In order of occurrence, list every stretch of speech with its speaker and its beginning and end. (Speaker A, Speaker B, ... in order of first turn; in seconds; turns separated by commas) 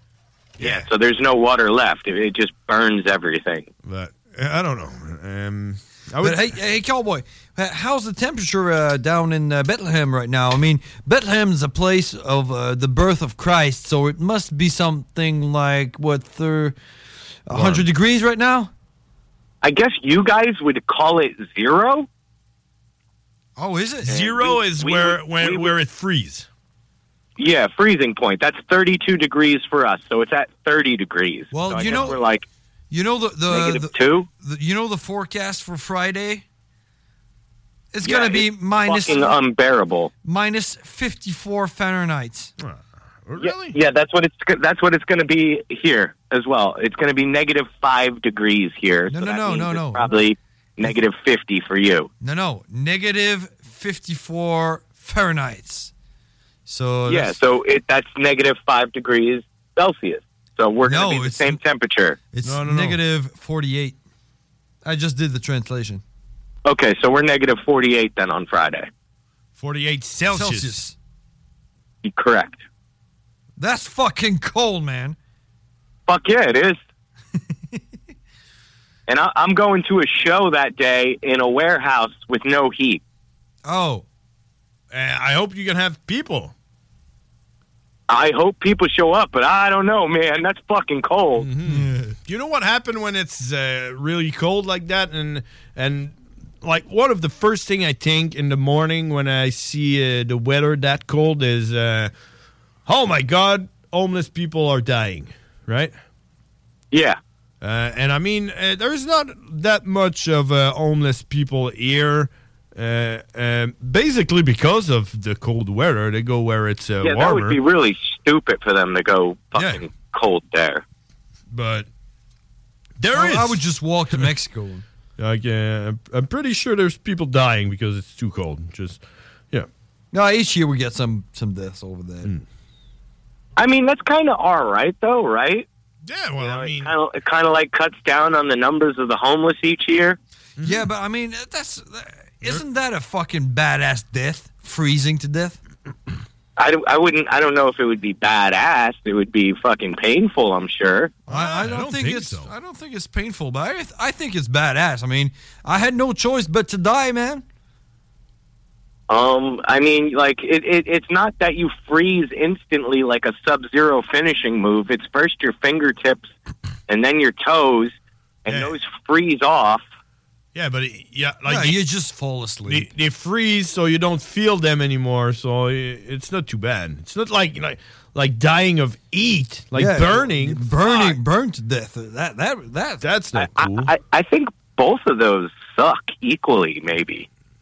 Speaker A: 0.6-0.9, Speaker B: 0.6-3.7, Speaker A: 3.8-6.6, Speaker C: 6.2-16.8, Speaker C: 17.5-18.7, Speaker A: 17.5-17.9, Speaker B: 19.6-22.1, Speaker C: 23.6-24.1, Speaker B: 24.1-25.7, Speaker A: 24.1-26.5, Speaker B: 27.4-32.5, Speaker C: 31.5-32.2, Speaker A: 31.8-32.2, Speaker C: 32.9-36.4, Speaker B: 33.5-34.3, Speaker C: 37.9-39.4, Speaker B: 38.0-40.1, Speaker C: 40.2-42.5, Speaker A: 42.6-43.8, Speaker B: 43.4-52.1, Speaker C: 49.1-50.1, Speaker C: 52.2-55.9, Speaker C: 56.7-57.4, Speaker B: 57.1-62.2, Speaker C: 60.9-61.6, Speaker C: 62.3-64.0, Speaker A: 62.4-63.0, Speaker C: 64.8-66.0, Speaker B: 66.7-68.9, Speaker A: 69.6-70.8, Speaker C: 70.3-71.0, Speaker B: 72.0-72.6, Speaker C: 73.6-75.2, Speaker B: 76.1-76.8, Speaker B: 79.1-83.0, Speaker C: 83.7-84.0, Speaker A: 84.9-86.5, Speaker B: 88.1-91.5, Speaker A: 91.4-102.1, Speaker C: 91.7-92.2, Speaker A: 102.9-106.0, Speaker B: 106.9-107.2, Speaker A: 107.6-117.6, Speaker B: 117.0-120.8, Speaker A: 119.6-119.8, Speaker A: 121.5-121.9, Speaker A: 123.0-124.3, Speaker C: 123.1-124.8, Speaker A: 125.2-129.7, Speaker C: 130.1-132.3, Speaker B: 133.6-135.7, Speaker A: 136.0-136.9, Speaker B: 136.4-140.2, Speaker A: 140.6-140.9, Speaker C: 140.6-145.6, Speaker B: 146.6-151.2, Speaker A: 151.3-152.5, Speaker C: 151.3-157.4, Speaker B: 159.1-166.3, Speaker B: 166.9-169.8, Speaker A: 168.5-168.8, Speaker A: 170.6-171.8, Speaker C: 171.5-172.9, Speaker A: 172.7-181.2, Speaker C: 179.8-183.1, Speaker A: 183.0-183.9, Speaker B: 183.3-187.3